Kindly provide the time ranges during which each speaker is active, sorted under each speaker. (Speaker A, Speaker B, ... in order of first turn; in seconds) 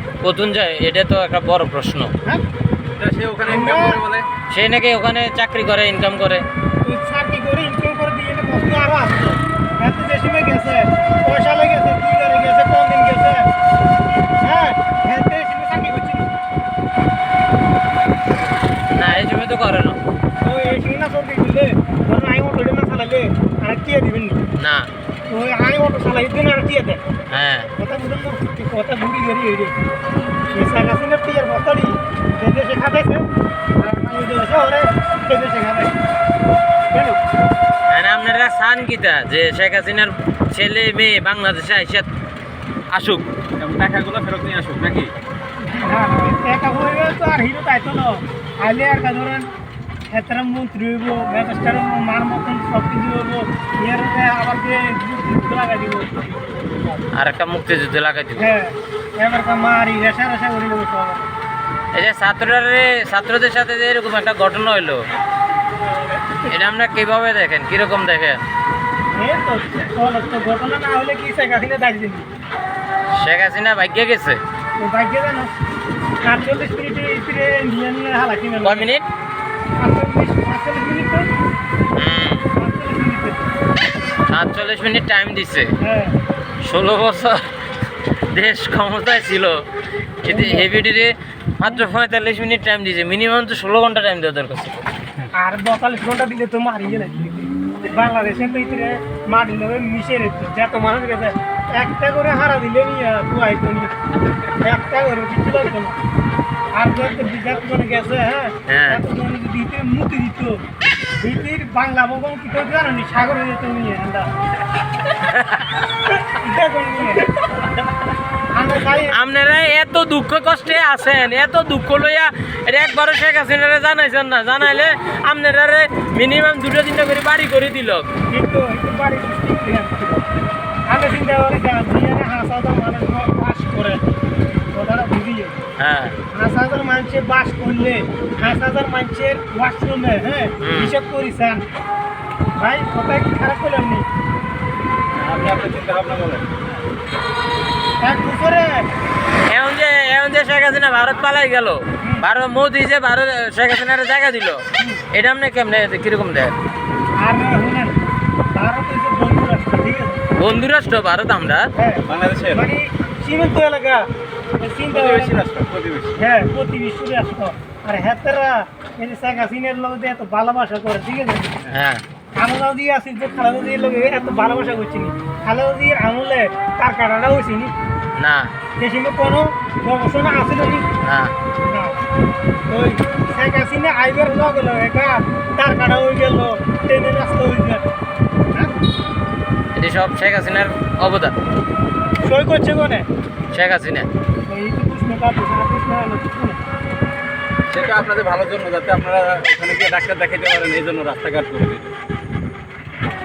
Speaker A: 0.2-2.1, 4.5-6.4, 18.9-20.0, 24.6-24.9, 27.3-27.7, 37.9-42.1, 42.9-43.2, 57.1-58.5, 61.9-65.0, 66.4-68.4, 73.1-74.4, 78.6-79.1, 81.9-82.5, 84.3-85.7, 86.6-87.4, 88.3-89.6, 90.2-94.8, 108.7-109.0, 115.2-115.8, 119.1-128.1, 135.8-136.2, 140.6-140.9, 149.5-156.5, 160.4-161.7, 171.7-172.0, 178.2-178.5, 181.0-181.3, 189.8-191.4, 193.5-194.1
Speaker B: 3.0-4.3, 43.6-45.1, 145.1-146.5, 162.1-162.7, 164.9-166.2, 197.7-201.9
Speaker C: 3.4-4.0, 6.8-13.5, 14.4-16.3, 20.4-24.4, 25.3-27.0, 27.8-29.8, 30.5-33.2, 33.8-35.9, 36.9-37.2, 45.7-49.5, 50.1-57.1, 58.4-61.3, 69.1-72.3, 74.8-75.5, 76.2-78.9, 79.8-81.3, 82.5-83.5, 85.8-86.2, 90.3-90.7, 95.3-104.0, 104.5-106.0, 106.7-110.6, 111.2-114.3, 116.2-117.3, 118.5-119.2, 128.3-130.2, 130.9-134.0, 134.7-135.6, 136.3-141.6, 142.6-144.0, 148.0-148.9, 152.0-152.3, 154.8-155.0, 157.2-158.0, 158.5-160.3, 161.8-164.1, 164.6-165.4, 166.2-171.6, 172.4-177.7, 178.8-180.9, 181.7-182.0, 182.7-187.8, 192.2-193.1, 194.5-196.6